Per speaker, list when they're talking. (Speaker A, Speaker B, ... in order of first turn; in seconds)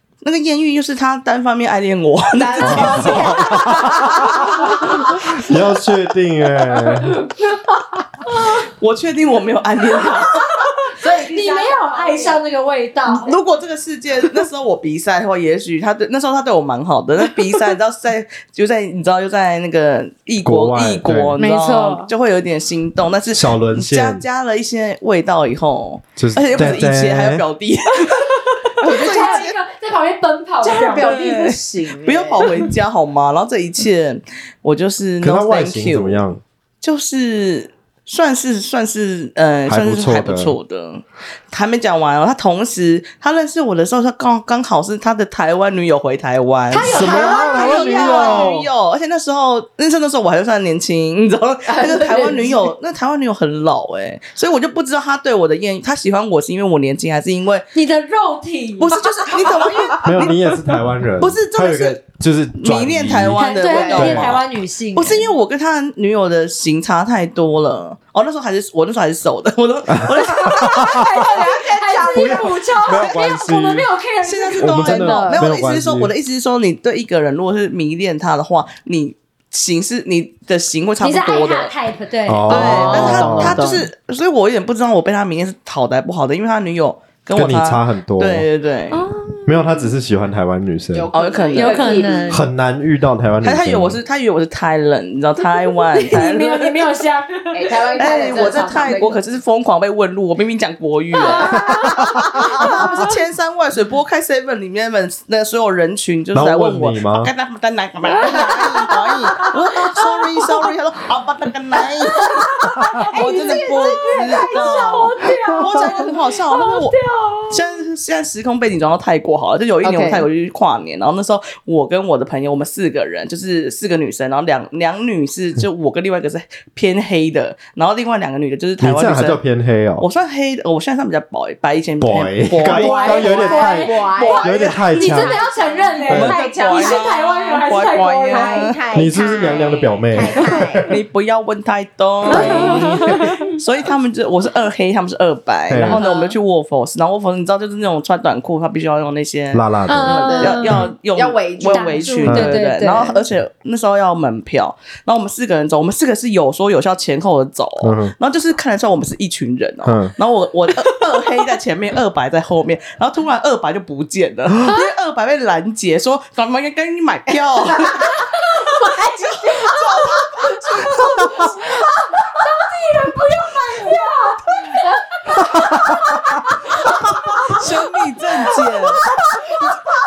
Speaker A: 0.2-3.4, 8.2-10.9, 13.1-29.6, 30.9-36.2, 36.8-57.7, 58.8-60.6, 61.2-62.0, 62.6-70.9, 74.2-81.7, 82.5-89.1, 91.1-92.1, 93.4-97.0, 98.0-117.0, 117.5-129.4, 130.0-133.3, 133.9-134.7, 136.1-138.8, 140.9-171.1, 176.8-179.0
Speaker B: 2.3-5.4, 10.9-12.4, 28.8-29.5, 30.6-32.5, 47.0-47.6, 51.6-52.7, 63.6-64.1, 70.7-72.5, 74.9-75.4, 82.5-83.9, 90.9-92.4, 97.5-99.2, 113.1-114.8, 119.8-120.3, 132.6-137.1, 138.3-140.9, 142.3-143.5, 145.9-146.3, 150.1-152.2
Speaker C: 2.6-7.2, 20.4-21.4, 23.3-24.2, 26.2-27.4, 35.2-36.4, 39.7-40.5, 46.8-48.6, 60.0-64.4, 69.9-71.3, 72.1-73.9, 74.6-76.1, 82.3-83.6, 87.3-88.5, 89.5-91.1, 92.3-94.0, 101.5-102.7, 106.3-107.3, 128.8-130.1, 132.0-135.3, 138.9-141.0, 142.3-142.7, 145.7-146.0, 149.5-150.1, 152.3-152.6, 157.8-158.1, 159.8-160.1, 175.3-176.5
Speaker D: 4.7-5.6, 6.6-7.5, 11.0-13.3, 21.4-22.1, 28.8-31.1, 46.7-48.6, 57.7-59.7, 63.3-65.3, 70.5-75.2, 81.0-83.2, 88.9-89.9, 91.5-92.5, 95.4-97.7, 101.2-103.1, 108.2-110.0, 112.1-117.8, 132.8-134.1, 134.9-138.7, 142.2-143.5, 149.8-150.9, 151.7-153.2, 168.1-168.9, 170.7-177.9